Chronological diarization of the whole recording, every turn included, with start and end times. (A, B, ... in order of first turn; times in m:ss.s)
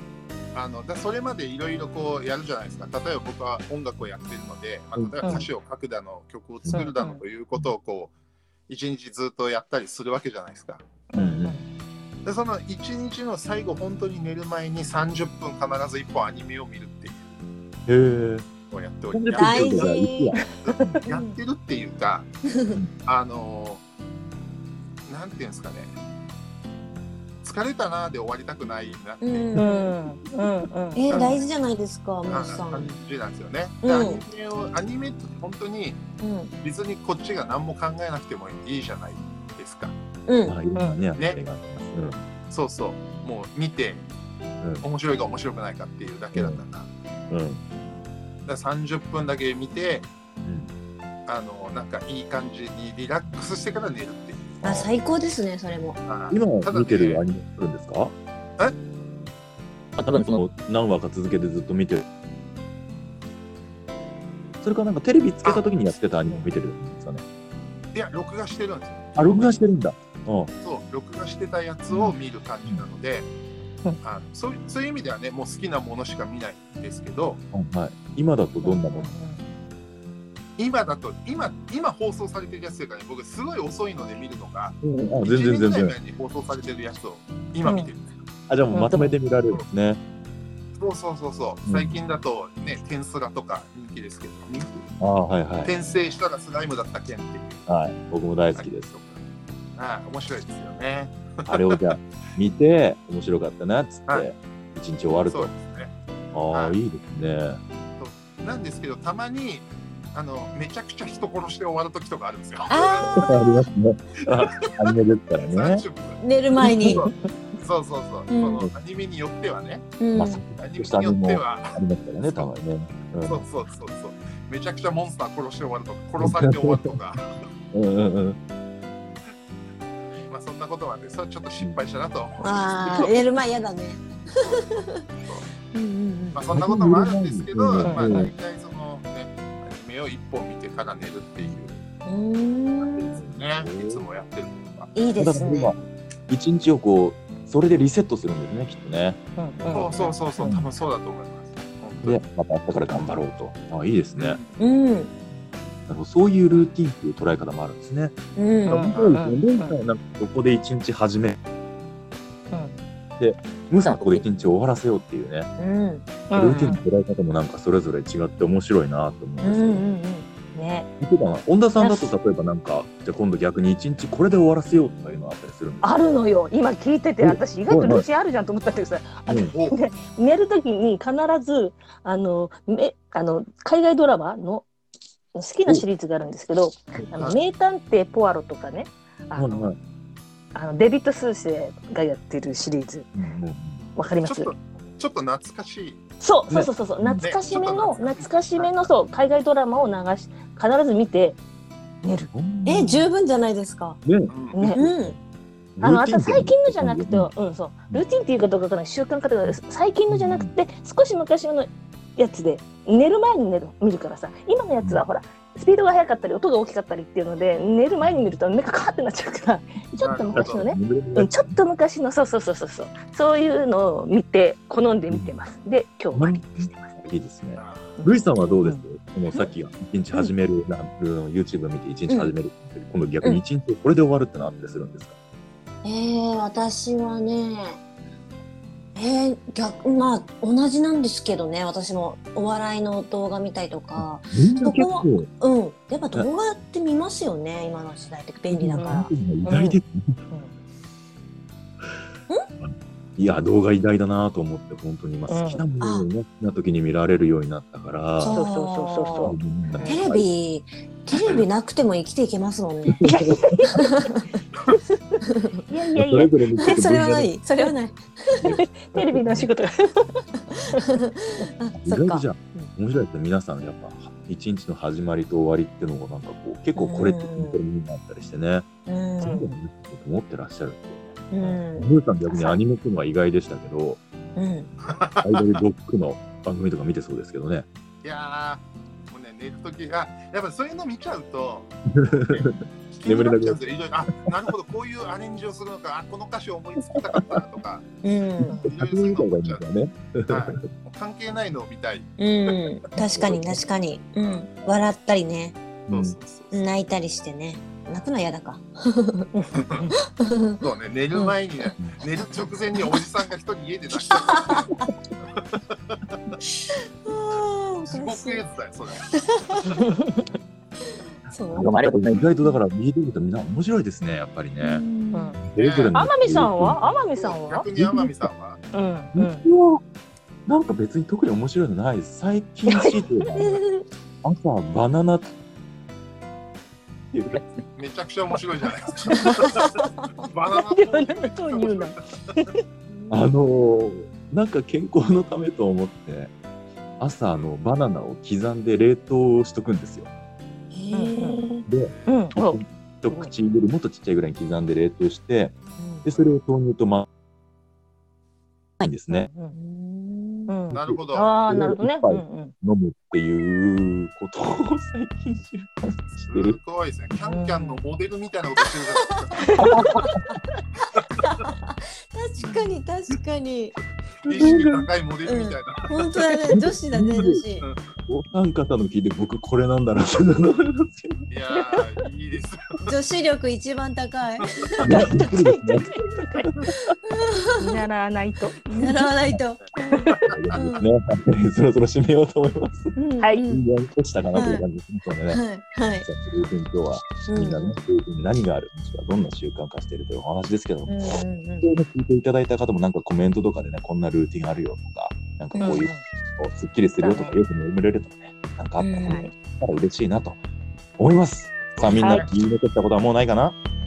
0:00.5-0:08.1 A
0:05.0-0:05.5 B
0:06.7-0:07.2 C
0:08.7-0:10.8 A
0:11.1-0:11.6 C
0:11.1-0:11.6 B
0:12.2-0:17.2 A
0:17.9-0:18.4 B
0:18.7-0:20.0 A
0:19.1-0:20.9 B
0:19.3-0:20.4 D
0:20.6-0:22.3 A
0:20.6-0:21.0 C
0:21.1-0:21.4 D
0:23.0-0:23.8 A
0:25.0-0:25.9 A
0:27.4-0:29.6 A
0:29.2-0:29.9 D
0:29.6-0:31.2 C
0:31.0-0:33.0 D
0:31.1-0:31.4 A
0:32.3-0:36.0 A
0:33.8-0:34.2 D
0:36.2-0:36.5 D
0:36.6-0:39.9 A
0:40.3-0:40.6 D
0:40.4-0:42.2 B
0:42.5-0:44.1 A
0:44.6-0:44.8 B
0:44.8-0:46.9 A
0:46.3-0:46.6 B
0:47.3-0:47.6 B
0:48.4-0:50.1 A
0:50.4-0:50.7 B
0:51.3-0:54.6 A
0:54.6-0:54.9 B
0:54.6-0:56.0 D
0:56.1-0:57.2 A
0:56.3-0:58.1 B
1:00.0-1:02.0 B
1:04.6-1:07.2 B
1:07.9-1:09.7 A
1:09.2-1:10.5 B
1:10.6-1:13.3 A
1:11.9-1:12.8 B
1:14.0-1:17.4 A
1:17.5-1:19.1 B
1:18.6-1:19.4 C
1:20.6-1:28.1 A
1:24.8-1:26.0 B
1:27.6-1:27.9 C
1:28.5-1:30.0 B
1:28.7-1:29.2 C
1:30.7-1:34.9 A
1:31.7-1:32.0 B
1:35.0-1:35.7 B
1:35.6-1:37.7 A
1:37.7-1:38.8 B
1:38.6-1:39.2 A
1:39.8-1:41.8 A
1:41.4-1:45.5 B
1:45.3-1:45.9 A
1:46.3-1:47.6 B
1:46.5-1:46.8 A
1:48.0-1:53.2 A
1:52.7-1:53.6 D
1:53.2-1:55.8 B
1:54.2-1:59.8 A
1:56.2-1:57.0 D
1:56.6-1:57.0 B
1:58.3-1:58.6 D
2:00.0-2:00.4 D
2:00.1-2:03.4 B
2:00.6-2:01.8 A
2:03.2-2:07.4 A
2:06.2-2:06.9 B
2:07.7-2:08.4 B
2:10.3-2:13.2 A
2:12.4-2:15.0 D
2:15.2-2:15.5 A
2:15.7-2:16.4 D
2:16.3-2:21.8 A
2:16.5-2:18.3 B
2:17.8-2:18.2 C
2:22.0-2:23.2 D
2:23.0-2:24.0 B
2:23.1-2:24.9 A
2:24.9-2:25.8 D
2:25.2-2:30.7 B
2:29.4-2:30.5 C
2:29.7-2:32.2 A
2:32.0-2:34.4 B
2:34.2-2:34.6 A
2:34.6-2:35.1 D
2:35.9-2:38.1 B
2:38.4-2:38.9 D
2:38.7-2:39.8 C
2:38.7-2:41.4 B
2:43.2-2:45.5 B
2:43.9-2:44.2 D
2:45.6-2:46.1 D
2:46.3-2:46.8 C
2:46.3-2:49.8 B
2:49.4-2:50.3 D
2:50.5-2:50.9 C
2:51.0-2:55.9 B
2:51.8-2:52.1 C
2:55.8-3:04.6 C
2:57.2-2:58.0 B
2:59.3-2:59.5 B
2:59.5-2:59.8 A
3:05.3-3:09.7 C
3:09.4-3:09.8 B
3:10.5-3:13.1 C
3:13.1-3:13.8 B
3:14.0-3:14.5 C
3:14.2-3:16.0 A
3:16.2-3:21.4 C
3:16.5-3:17.3 B
3:17.2-3:18.7 A
3:22.0-3:22.3 C
3:22.3-3:23.1 B
3:22.6-3:24.0 D
3:24.0-3:25.2 B
3:24.3-3:24.7 A
3:24.5-3:24.8 C
3:24.8-3:25.2 D
3:25.8-3:27.3 B
3:25.8-3:47.0 C
3:29.4-3:30.5 B
3:38.0-3:38.4 B
3:40.0-3:40.6 A
3:40.3-3:41.6 B
3:45.1-3:45.3 B
3:46.1-3:55.1 B
3:47.6-3:47.8 A
3:48.0-3:48.8 C
3:55.8-3:57.8 D
3:59.0-4:09.8 D
4:04.0-4:05.3 B
4:08.5-4:10.2 B
4:08.7-4:09.7 C
4:12.6-4:18.4 B
4:15.3-4:15.6 C
4:15.8-4:16.1 D
4:18.2-4:19.3 D
4:18.3-4:19.9 C
4:19.2-4:20.2 B
4:19.8-4:24.2 D
4:23.0-4:23.7 B
4:23.4-4:23.7 C
4:24.7-4:26.4 C
4:25.2-4:25.6 D
4:25.9-4:27.3 B
4:26.6-4:28.5 D
4:28.4-4:29.5 B
4:28.6-4:30.9 C
4:30.5-4:32.7 D
4:31.8-4:38.7 B
4:36.8-4:37.6 D
4:38.9-4:39.6 D
4:39.2-4:44.0 B
4:41.3-4:42.6 D
4:44.4-4:44.7 D
4:44.8-4:45.6 A
4:45.2-4:47.6 B
4:48.0-4:57.8 A
4:51.9-4:53.6 B
4:56.9-4:57.4 B
4:58.0-4:58.6 D
4:58.4-5:00.6 B
4:58.5-4:58.7 C
4:58.6-4:59.6 A
5:00.3-5:02.6 A
5:02.2-5:05.6 D
5:03.0-5:03.6 B
5:05.9-5:06.6 A
5:05.9-5:06.2 B
5:06.5-5:09.3 D
5:09.3-5:10.0 C
5:09.5-5:09.8 A
5:10.0-5:10.6 D
5:10.6-5:14.7 A
5:14.1-5:14.9 D
5:15.3-5:16.2 A
5:16.6-5:18.5 D
5:17.9-5:19.1 A
5:19.1-5:19.8 D
5:19.7-5:20.2 C
5:21.3-5:22.6 D
5:21.5-5:24.8 B
5:24.6-5:25.4 D
5:25.1-5:25.4 C
5:25.4-5:26.8 B
5:25.6-5:26.0 A
5:25.9-5:27.6 C
5:27.1-5:28.6 A
5:27.8-5:28.3 B
5:28.7-5:29.5 C
5:29.1-5:29.8 B
5:30.5-5:33.6 B
5:32.7-5:33.0 C
5:33.3-5:33.8 D
5:34.2-5:35.3 B
5:37.1-5:37.6 B
5:37.8-5:42.0 A
5:40.5-5:42.6 C
5:42.9-5:43.3 D
5:43.1-5:46.3 B
5:47.0-5:50.1 B
5:50.7-5:51.6 D
5:50.9-5:53.3 C
5:51.7-5:57.1 B
5:51.8-5:52.2 A
5:55.8-5:56.0 D
5:58.8-5:59.3 B
5:59.1-5:59.6 C
5:59.5-6:00.5 D
6:00.5-6:02.5 C
6:00.7-6:01.3 A
6:00.8-6:06.6 B
6:06.3-6:09.5 A
6:07.2-6:07.8 C
6:09.4-6:10.1 C
6:09.6-6:10.0 D
6:09.6-6:10.2 B
6:11.2-6:13.8 D
6:14.2-6:16.2 A
6:14.2-6:14.9 B
6:15.3-6:17.6 D
6:16.4-6:17.4 B
6:18.1-6:21.2 B
6:21.3-6:22.9 A
6:22.8-6:25.7 D
6:24.8-6:27.0 B
6:25.1-6:26.5 C
6:26.9-6:27.8 D
6:27.6-6:29.0 C
6:28.8-6:30.9 D
6:30.1-6:30.4 A
6:30.3-6:32.9 B
6:32.9-6:33.6 D
6:33.2-6:33.5 C
6:33.5-6:35.4 B
6:34.3-6:34.6 D
6:35.3-6:36.1 D
6:36.0-6:50.4 B
6:37.3-6:37.8 D
6:40.9-6:41.7 D
6:45.5-6:45.8 D
6:45.6-6:46.0 C
6:47.0-6:47.3 C
6:48.8-6:49.3 D
6:51.0-6:53.6 B
6:51.8-6:52.3 A
6:52.0-6:52.3 C